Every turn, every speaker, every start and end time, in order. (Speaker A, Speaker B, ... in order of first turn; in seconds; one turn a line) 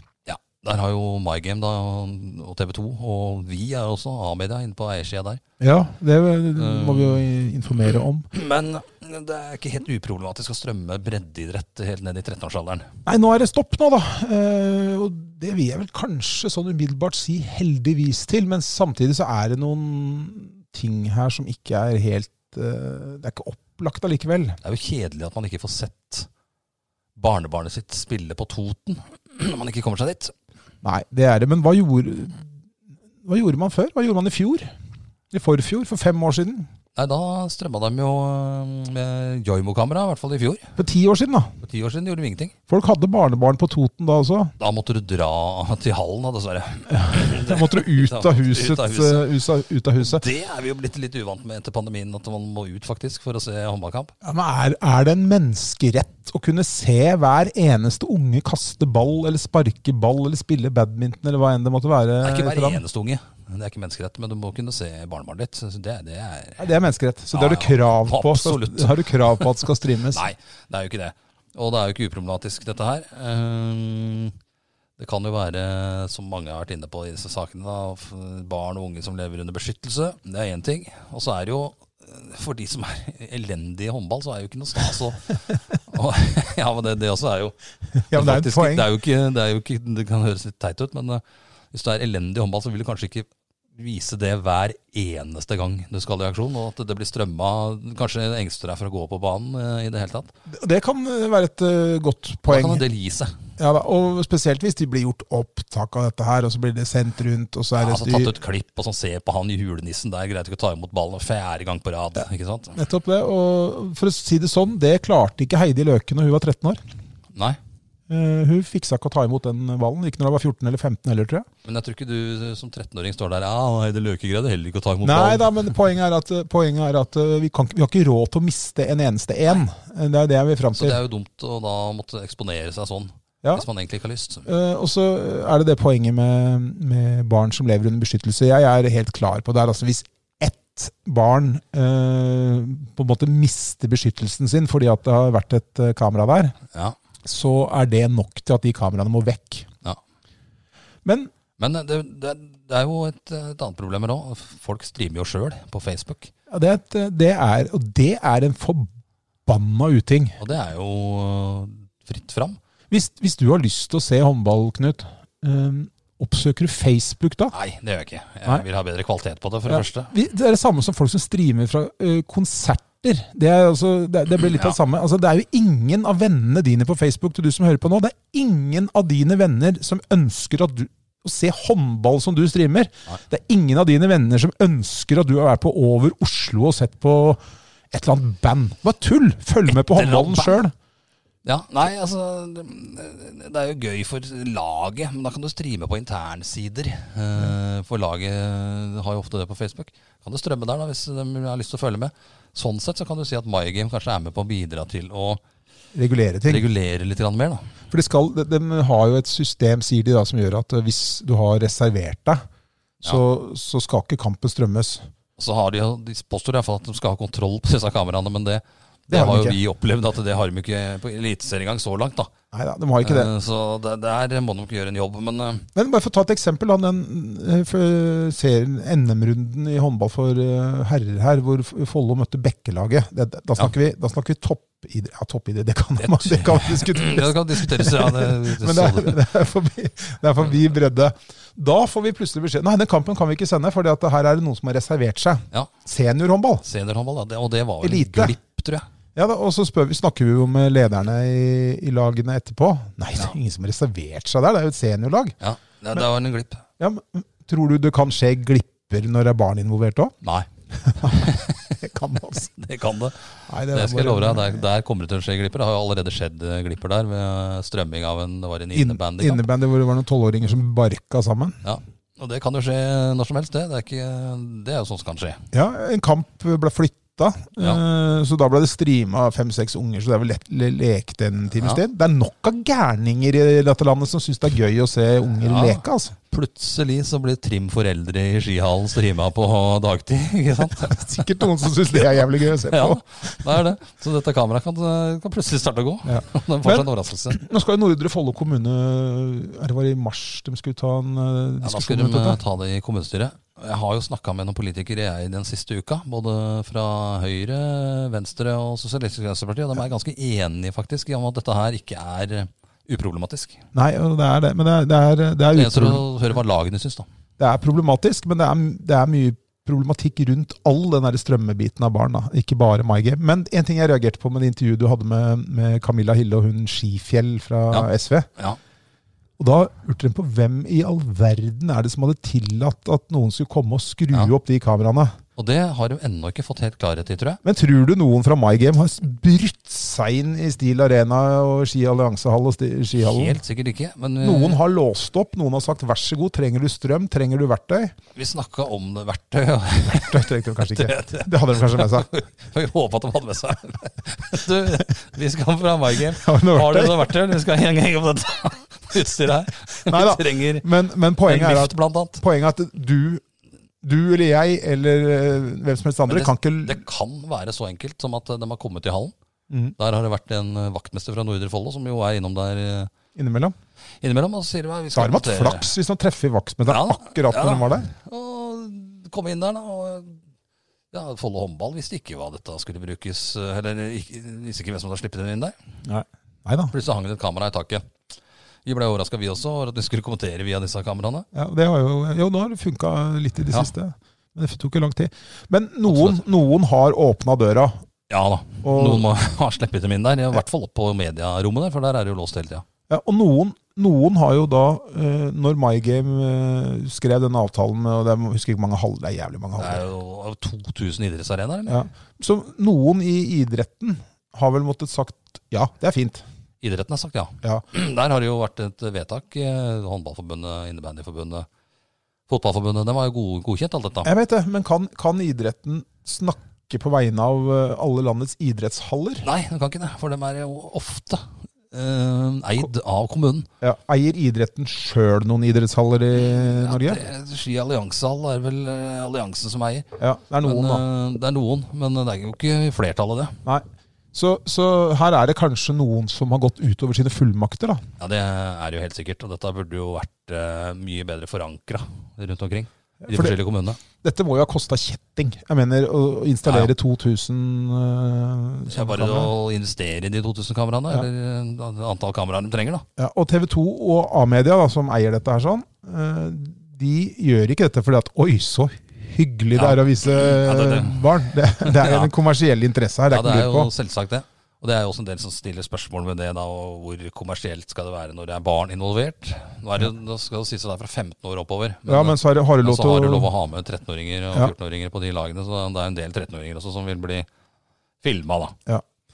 Speaker A: 0.3-5.4
Speaker B: 5.6-8.3
Speaker A: 6.6-7.2
Speaker A: 8.3-12.9
Speaker B: 13.1-24.6
Speaker A: 24.6-26.3
Speaker A: 27.2-30.3
Speaker B: 30.8-32.5
Speaker B: 33.2-34.7
Speaker B: 35.3-36.7
Speaker A: 37.0-40.7
Speaker B: 40.8-41.5
Speaker A: 41.6-42.5
Speaker B: 42.7-44.5
Speaker A: 44.6-49.3
Speaker B: 47.0-50.2
Speaker A: 50.0-54.1
Speaker B: 54.2-62.8
Speaker A: 62.2-66.7
Speaker B: 66.6-70.3
Speaker A: 67.3-69.5
Speaker A: 70.1-74.3
Speaker A: 75.0-87.6
Speaker B: 88.1-88.9
Speaker A: 88.1-91.2
Speaker A: 91.7-100.3
Speaker B: 100.5-102.8
Speaker A: 102.5-103.3
Speaker B: 103.6-108.3
Speaker A: 107.8-112.8
Speaker B: 112.8-116.8
Speaker B: 118.1-121.5
Speaker A: 121.7-125.7
Speaker B: 125.0-131.0
Speaker A: 130.8-134.5
Speaker B: 134.4-146.6
Speaker B: 147.2-149.7
Speaker B: 151.1-151.3
Speaker A: 151.6-156.3
Speaker B: 156.5-158.9
Speaker B: 159.5-160.4
Speaker A: 160.4-162.6
Speaker B: 162.9-167.5
Speaker A: 167.5-170.1
Speaker B: 169.7-190.7
Speaker A: 189.7-190.6
Speaker A: 191.4-205.4
Speaker B: 205.9-206.7
Speaker A: 206.5-207.7
Speaker B: 207.9-212.4
Speaker B: 213.0-215.1
Speaker A: 215.4-222.3
Speaker B: 219.1-219.6
Speaker B: 222.5-223.3
Speaker A: 223.0-225.7
Speaker B: 225.8-246.7
Speaker A: 236.0-239.2
Speaker A: 246.7-248.9
Speaker B: 247.8-248.4
Speaker B: 249.2-255.4
Speaker A: 255.4-256.6
Speaker B: 256.8-260.1
Speaker B: 260.8-261.3
Speaker A: 261.1-261.8
Speaker B: 261.8-262.5
Speaker A: 262.6-269.4
Speaker B: 263.5-264.6
Speaker B: 268.7-271.6
Speaker A: 271.6-275.4
Speaker B: 275.5-286.1
Speaker A: 285.4-291.5
Speaker B: 290.8-293.6
Speaker A: 292.0-297.4
Speaker B: 296.1-302.4
Speaker A: 301.6-313.6
Speaker B: 313.7-316.1
Speaker A: 315.5-317.1
Speaker B: 317.4-328.3
Speaker A: 327.7-328.6
Speaker B: 329.4-335.2
Speaker A: 335.4-337.4
Speaker B: 337.4-343.4
Speaker A: 343.0-344.6
Speaker B: 344.2-347.9
Speaker A: 348.1-360.7
Speaker B: 349.9-352.1
Speaker B: 356.1-357.1
Speaker B: 359.9-363.2
Speaker A: 361.2-362.2
Speaker B: 363.8-366.8
Speaker A: 366.1-369.1
Speaker B: 369.5-369.8
Speaker A: 369.8-372.9
Speaker B: 373.1-373.6
Speaker A: 374.0-375.7
Speaker B: 374.9-377.9
Speaker A: 376.7-380.2
Speaker A: 380.9-385.5
Speaker B: 385.8-386.7
Speaker A: 386.7-387.9
Speaker A: 388.6-391.3
Speaker B: 391.3-397.8
Speaker A: 395.9-396.2
Speaker A: 398.1-402.7
Speaker B: 398.6-399.0
Speaker B: 402.9-409.8
Speaker A: 409.6-411.8
Speaker B: 411.7-416.2
Speaker A: 416.6-421.5
Speaker A: 422.3-424.1
Speaker B: 424.0-429.3
Speaker A: 429.2-433.5
Speaker B: 433.6-437.0
Speaker A: 436.1-439.9
Speaker B: 440.0-440.8
Speaker A: 440.4-443.4
Speaker B: 443.4-447.8
Speaker A: 448.0-453.8
Speaker B: 453.1-453.4
Speaker B: 454.0-459.3
Speaker A: 456.4-456.7
Speaker A: 458.7-462.9
Speaker B: 463.0-473.7
Speaker A: 469.6-472.1
Speaker A: 473.1-487.3
Speaker B: 481.9-483.3
Speaker A: 488.0-488.6